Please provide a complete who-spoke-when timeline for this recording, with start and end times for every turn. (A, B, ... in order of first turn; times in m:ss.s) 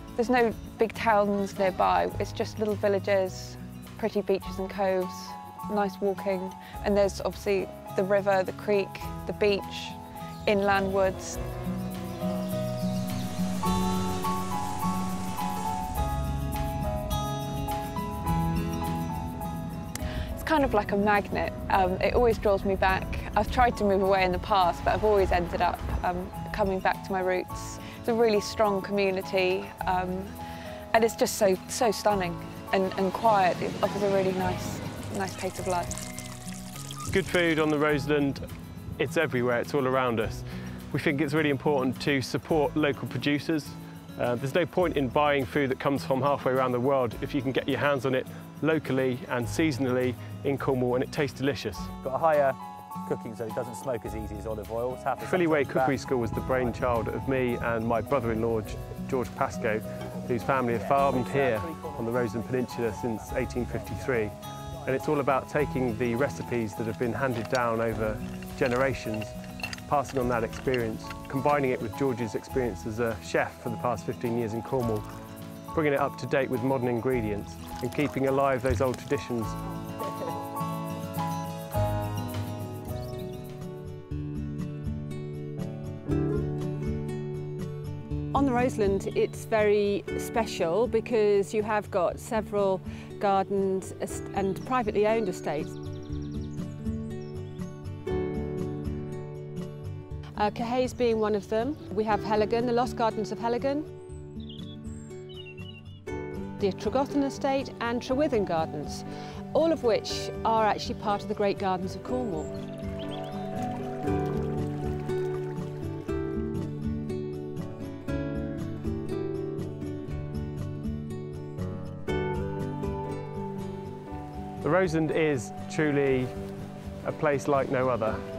0:00.2-0:11.4 A
0:20.4-0:30.3 A
0:30.9-0:35.9 A
0:37.1-0:38.4 B
0:39.0-0:51.9 B
0:52.0-0:56.0 C
0:55.2-1:09.3 B
1:00.7-1:04.1 C
1:09.9-1:15.0 B
1:15.7-1:19.6 B
1:28.3-1:35.8 D
1:40.4-1:43.9 D
1:46.6-1:52.5 D
2:04.6-2:06.3 B
2:07.0-2:08.2 B